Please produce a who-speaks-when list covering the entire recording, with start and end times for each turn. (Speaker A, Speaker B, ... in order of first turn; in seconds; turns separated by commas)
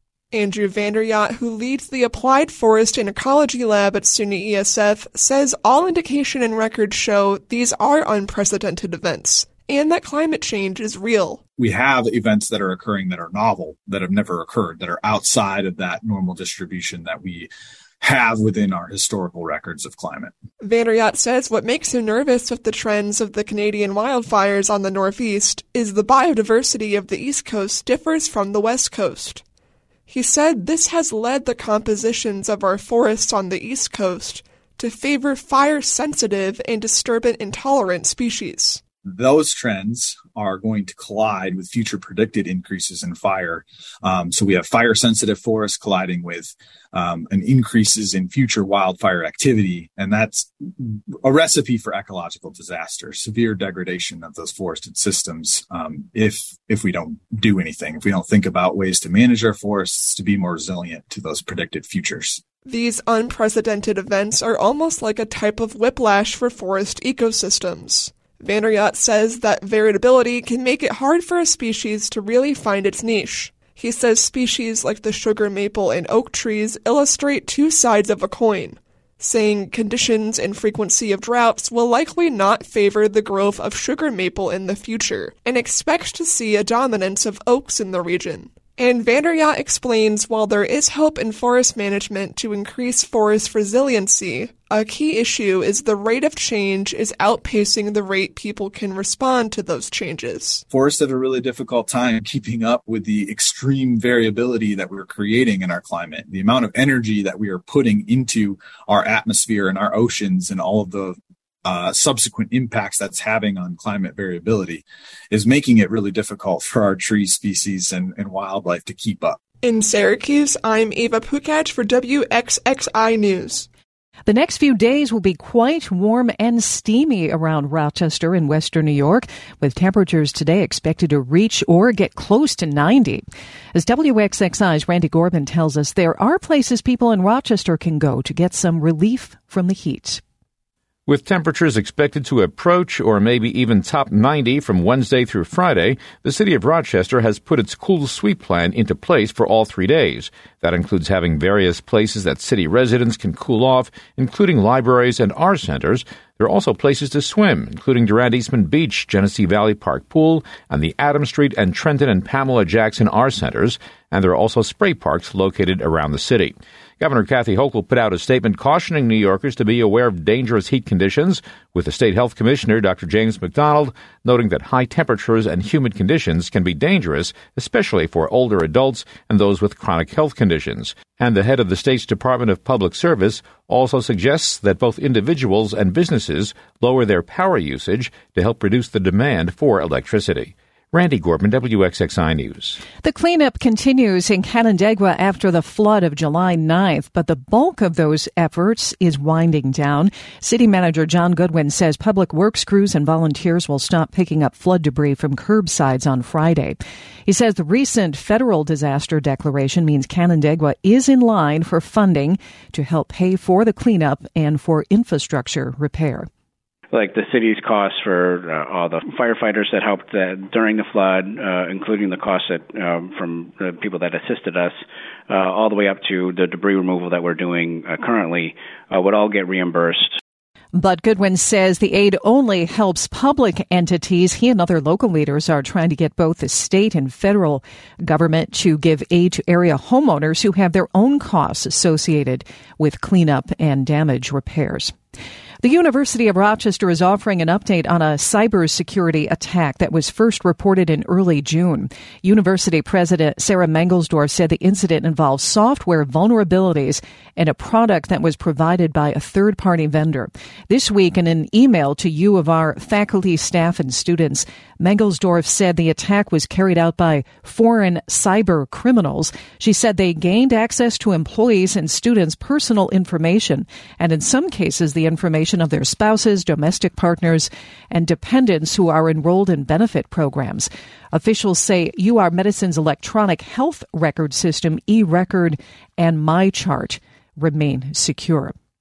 Speaker A: 0.3-11.4, Speaker B: 11.6-17.5, Speaker B: 18.0-20.3, Speaker A: 20.6-29.4, Speaker A: 30.1-38.8, Speaker B: 39.0-62.4, Speaker A: 62.6-100.6, Speaker B: 100.7-119.4, Speaker A: 119.6-123.7, Speaker C: 124.2-133.2, Speaker C: 133.7-140.2, Speaker D: 141.1-192.8, Speaker C: 193.0-216.3, Speaker E: 216.9-224.8, Speaker E: 225.3-230.2, Speaker C: 230.7-244.9, Speaker C: 245.6-288.5